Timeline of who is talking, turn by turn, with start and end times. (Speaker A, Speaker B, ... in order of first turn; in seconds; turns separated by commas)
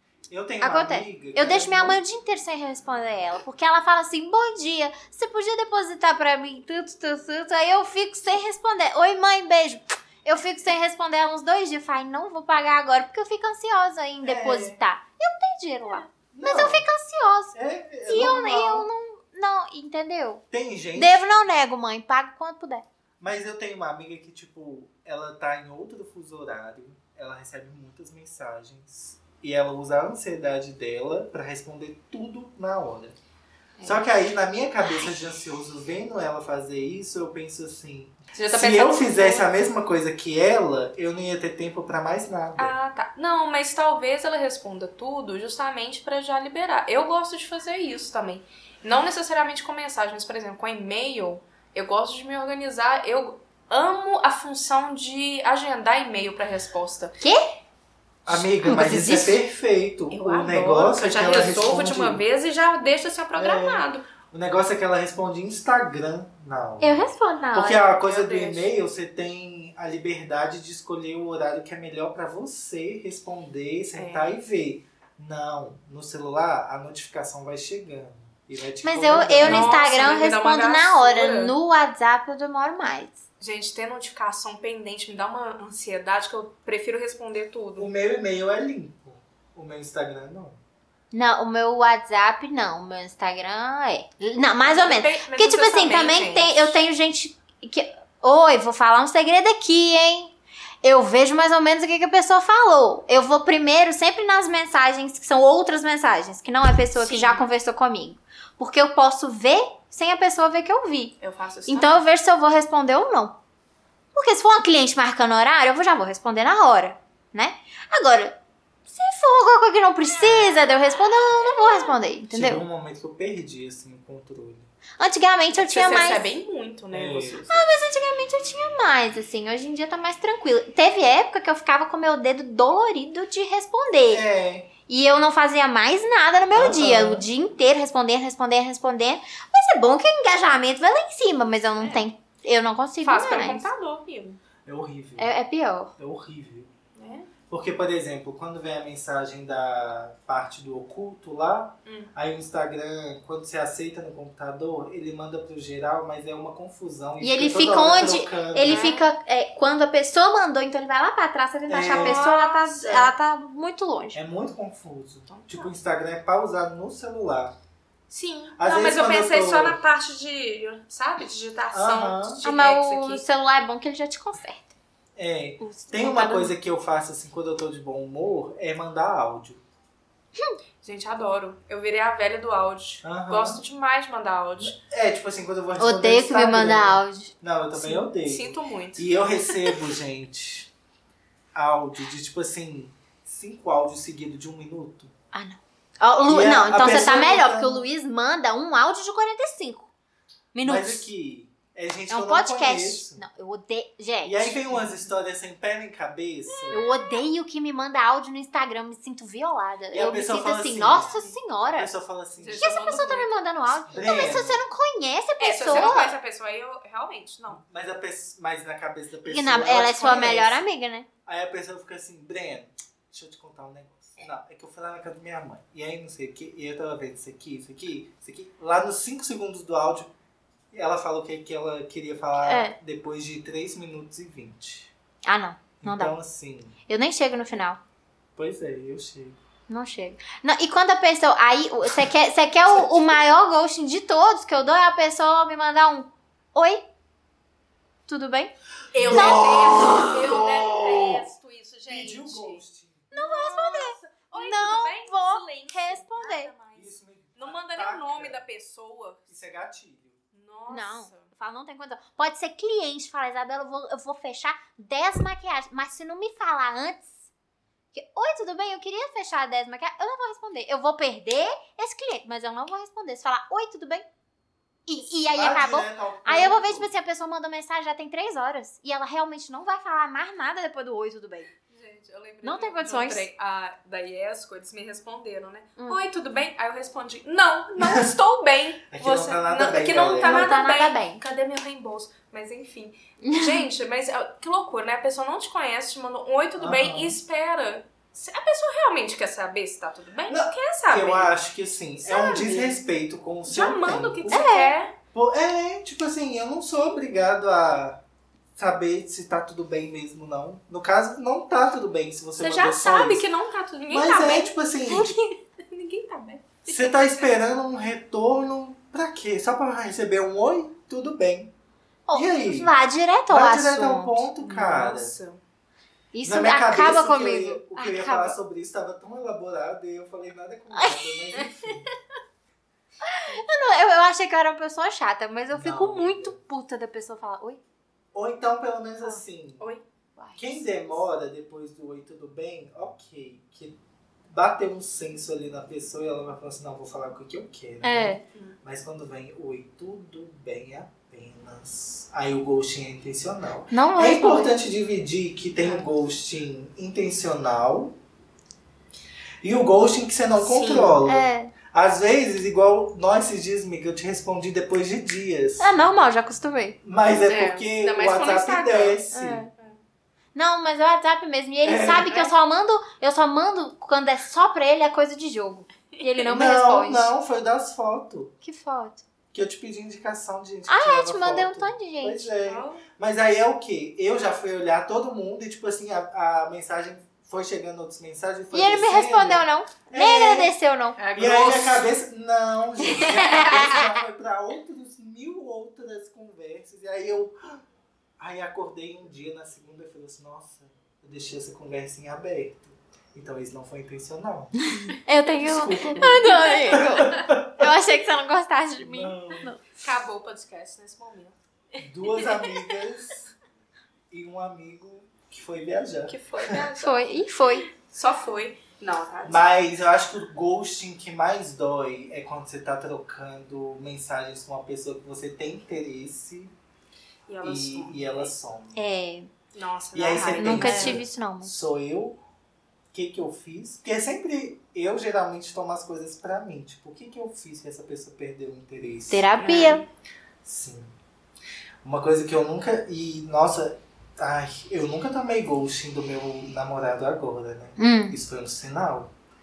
Speaker A: 0.3-2.0, Speaker B: 0.6-17.6, Speaker A: 14.2-14.8, Speaker A: 16.3-16.8, Speaker A: 17.5-18.9, Speaker B: 18.1-20.4, Speaker A: 20.5-21.2, Speaker B: 20.9-22.8, Speaker A: 23.2-33.1, Speaker B: 33.8-34.0, Speaker A: 33.8-42.7, Speaker C: 38.3-39.5, Speaker C: 42.6-57.1, Speaker A: 58.2-62.2, Speaker B: 58.3-59.4, Speaker C: 60.1-64.0, Speaker A: 63.4-79.8, Speaker B: 66.8-67.8, Speaker C: 67.8-68.7, Speaker C: 73.9-74.3, Speaker B: 78.8-83.2, Speaker C: 79.4-81.5, Speaker C: 83.4-87.9, Speaker A: 87.8-90.6, Speaker B: 91.1-111.1, Speaker C: 94.6-96.8, Speaker C: 106.9-107.4, Speaker C: 111.2-112.0, Speaker B: 111.7-113.4, Speaker B: 114.1-122.6, Speaker A: 122.3-124.7, Speaker B: 125.0-126.3, Speaker C: 125.5-127.6, Speaker A: 126.9-127.5, Speaker B: 127.5-134.2, Speaker A: 134.1-134.7, Speaker B: 134.9-143.7, Speaker A: 136.5-137.3, Speaker C: 141.8-142.0, Speaker C: 143.0-144.4, Speaker A: 144.7-145.3, Speaker B: 145.2-145.9, Speaker A: 146.0-146.7, Speaker C: 146.9-147.3, Speaker A: 147.5-158.9, Speaker C: 151.8-152.1, Speaker B: 157.2-164.2, Speaker C: 158.6-159.0, Speaker A: 161.7-162.2, Speaker C: 161.9-163.1, Speaker A: 164.1-167.5, Speaker C: 165.3-165.7, Speaker C: 168.1-173.2, Speaker A: 168.6-169.8, Speaker A: 171.7-172.4, Speaker B: 172.4-174.7, Speaker A: 175.2-179.6, Speaker C: 175.7-176.5, Speaker B: 176.0-176.4, Speaker C: 180.8-184.8, Speaker A: 183.0-183.6, Speaker A: 184.6-190.7, Speaker B: 185.8-187.3, Speaker C: 187.8-189.9, Speaker A: 191.5-195.1, Speaker B: 195.3-199.9, Speaker A: 196.3-197.8, Speaker B: 200.5-201.1, Speaker A: 200.6-203.2, Speaker B: 202.1-204.6, Speaker A: 204.2-206.8, Speaker C: 206.5-207.0, Speaker B: 206.7-211.9, Speaker A: 209.9-212.7, Speaker C: 210.9-211.4, Speaker C: 212.4-213.3, Speaker B: 212.5-216.1, Speaker A: 213.9-214.6, Speaker C: 215.4-217.6, Speaker A: 215.7-216.0, Speaker A: 217.5-220.7, Speaker B: 219.2-221.1, Speaker A: 221.2-230.1, Speaker A: 230.7-234.9, Speaker B: 232.4-232.7, Speaker B: 235.2-236.1, Speaker A: 235.8-236.8, Speaker B: 236.9-237.8, Speaker A: 238.4-239.4, Speaker B: 239.7-246.8, Speaker A: 242.6-243.1, Speaker B: 248.1-249.9, Speaker C: 248.9-252.6, Speaker A: 248.9-251.2, Speaker A: 251.9-253.1, Speaker B: 253.1-256.5, Speaker C: 253.1-259.3, Speaker A: 256.7-258.4, Speaker A: 259.3-260.2, Speaker C: 260.3-261.3, Speaker B: 260.7-267.1, Speaker B: 267.9-274.0, Speaker B: 274.9-281.5, Speaker A: 275.3-276.9, Speaker C: 281.7-301.3, Speaker B: 282.4-283.3, Speaker B: 285.8-286.0, Speaker A: 288.9-290.5, Speaker B: 290.2-291.2, Speaker B: 293.2-293.7, Speaker A: 296.6-297.2, Speaker A: 300.3-304.5, Speaker C: 302.0-302.8, Speaker C: 303.5-304.9, Speaker B: 304.3-304.7, Speaker A: 305.1-308.0, Speaker A: 308.6-313.2, Speaker C: 312.4-317.4, Speaker A: 313.9-315.1, Speaker A: 316.6-321.5, Speaker B: 322.1-324.2, Speaker A: 322.1-322.7, Speaker A: 323.3-325.1, Speaker C: 324.4-325.4, Speaker B: 326.1-328.4, Speaker A: 326.2-331.9, Speaker B: 330.7-331.2, Speaker B: 333.0-337.6, Speaker A: 335.5-336.4, Speaker A: 338.1-339.7, Speaker C: 339.6-340.6, Speaker A: 340.4-343.7, Speaker A: 344.3-357.9, Speaker B: 347.8-348.2, Speaker B: 353.7-354.5, Speaker C: 355.6-355.9, Speaker A: 359.4-365.7, Speaker C: 360.4-361.0, Speaker B: 361.1-361.5, Speaker B: 365.6-366.8, Speaker A: 366.8-369.5, Speaker C: 367.2-369.0, Speaker B: 369.1-369.5, Speaker B: 370.3-377.1, Speaker A: 371.6-372.1, Speaker C: 372.1-372.3, Speaker A: 376.3-378.3, Speaker B: 378.4-379.0, Speaker A: 379.3-390.5, Speaker B: 380.7-382.3, Speaker C: 382.4-382.8, Speaker B: 388.5-391.0, Speaker C: 391.0-391.9, Speaker A: 391.1-397.6, Speaker B: 392.9-393.9, Speaker C: 393.1-393.7, Speaker A: 398.2-404.7, Speaker B: 404.6-409.6, Speaker A: 405.3-407.6, Speaker C: 406.0-407.2, Speaker A: 408.8-409.5, Speaker C: 409.7-411.4, Speaker A: 411.8-413.3, Speaker C: 412.1-412.7, Speaker A: 414.1-416.6, Speaker C: 416.1-417.1, Speaker B: 416.8-417.7, Speaker C: 417.7-419.4, Speaker A: 419.2-426.5, Speaker C: 427.3-428.3, Speaker A: 427.4-428.8, Speaker B: 428.7-429.3, Speaker C: 429.5-431.0, Speaker A: 429.9-432.2, Speaker B: 430.3-431.5, Speaker A: 432.9-439.3, Speaker B: 439.1-439.8, Speaker C: 439.4-439.9, Speaker A: 440.4-440.9, Speaker A: 441.8-449.1, Speaker B: 447.8-448.1